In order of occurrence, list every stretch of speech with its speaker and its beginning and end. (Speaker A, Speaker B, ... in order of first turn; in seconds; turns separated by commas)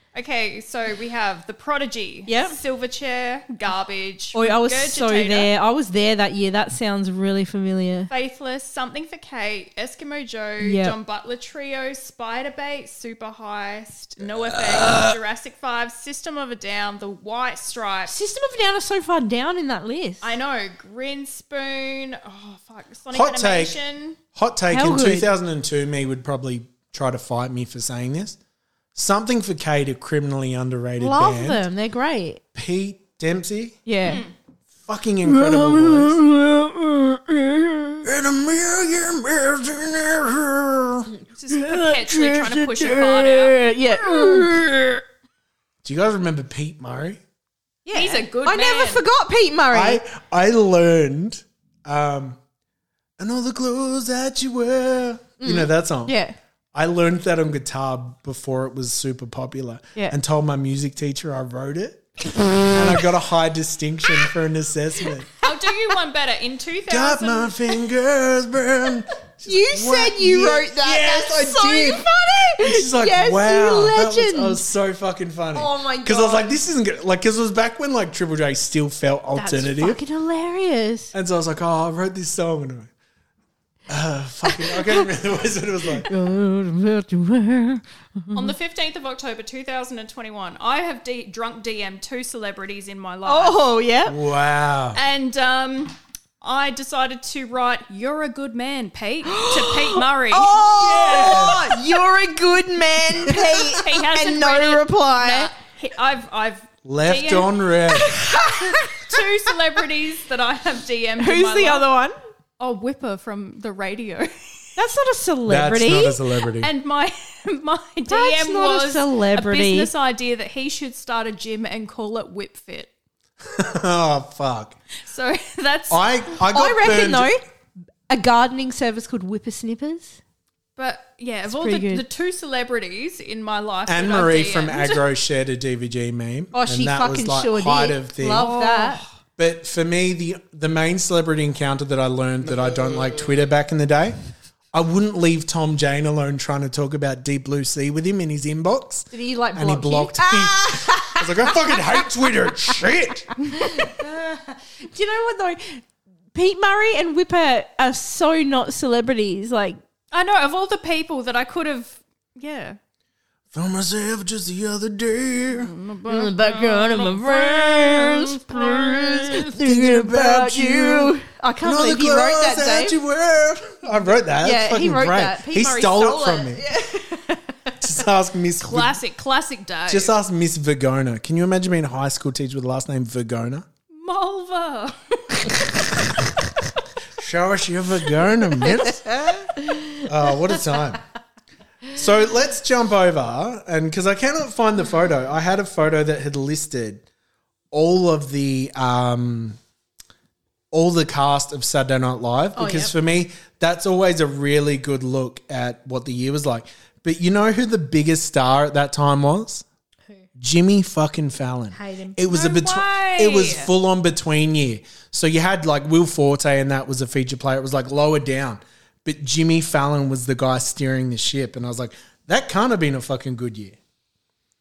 Speaker A: 0.1-5.5, Speaker B: 2.3-2.6, Speaker B: 4.3-8.1, Speaker A: 8.1-18.1, Speaker B: 10.6-11.0, Speaker C: 14.6-15.1, Speaker B: 18.1-20.3, Speaker A: 20.2-24.2, Speaker C: 23.1-23.8, Speaker C: 24.3-28.4, Speaker B: 24.7-25.3, Speaker C: 28.9-31.6, Speaker B: 31.0-32.4, Speaker C: 32.5-33.8, Speaker B: 33.9-34.2, Speaker A: 34.0-34.3, Speaker C: 34.8-36.2, Speaker B: 35.2-38.1, Speaker C: 38.0-41.1, Speaker B: 41.1-44.5, Speaker A: 41.3-43.6, Speaker C: 44.0-44.8, Speaker C: 45.8-47.2, Speaker B: 47.8-50.0, Speaker A: 47.9-49.0, Speaker C: 49.7-52.4, Speaker C: 53.2-56.1, Speaker B: 55.4-56.3, Speaker C: 56.7-65.3, Speaker A: 65.4-67.6, Speaker C: 66.9-80.0, Speaker B: 69.4-74.6, Speaker B: 75.5-76.6, Speaker B: 79.3-81.1, Speaker C: 81.1-82.9, Speaker C: 83.9-86.1, Speaker B: 84.5-85.0, Speaker B: 86.0-88.5, Speaker A: 88.3-93.6, Speaker B: 93.2-94.2, Speaker C: 94.0-95.0, Speaker A: 94.9-101.8, Speaker B: 99.3-105.5, Speaker C: 101.0-101.6, Speaker A: 103.3-107.5, Speaker C: 106.8-108.2, Speaker B: 107.9-109.3, Speaker A: 108.7-111.9, Speaker B: 111.2-112.2, Speaker A: 112.6-114.3, Speaker B: 114.8-116.2, Speaker C: 115.5-116.7, Speaker A: 116.6-122.9, Speaker B: 118.1-119.9, Speaker C: 123.4-124.8, Speaker A: 125.0-126.0, Speaker C: 125.9-127.3, Speaker B: 126.5-127.4, Speaker B: 128.1-130.2, Speaker A: 130.8-135.0, Speaker B: 131.5-132.0, Speaker C: 133.8-138.5, Speaker B: 136.5-139.0, Speaker A: 138.3-139.1, Speaker C: 139.4-144.2, Speaker C: 144.7-153.3, Speaker B: 149.1-152.0, Speaker B: 153.5-159.8, Speaker A: 160.1-162.8, Speaker C: 163.5-165.7, Speaker A: 165.5-169.3, Speaker B: 166.1-173.0, Speaker C: 168.5-176.6, Speaker B: 174.4-177.7, Speaker C: 177.8-179.0, Speaker A: 178.6-180.1, Speaker C: 179.9-183.7, Speaker A: 183.9-185.5, Speaker C: 187.2-189.4, Speaker B: 189.1-189.8, Speaker C: 190.0-191.0, Speaker C: 191.9-197.0, Speaker C: 197.7-199.6, Speaker C: 200.7-209.6, Speaker B: 202.6-202.9, Speaker C: 210.4-223.8, Speaker B: 211.7-212.2, Speaker A: 212.3-213.7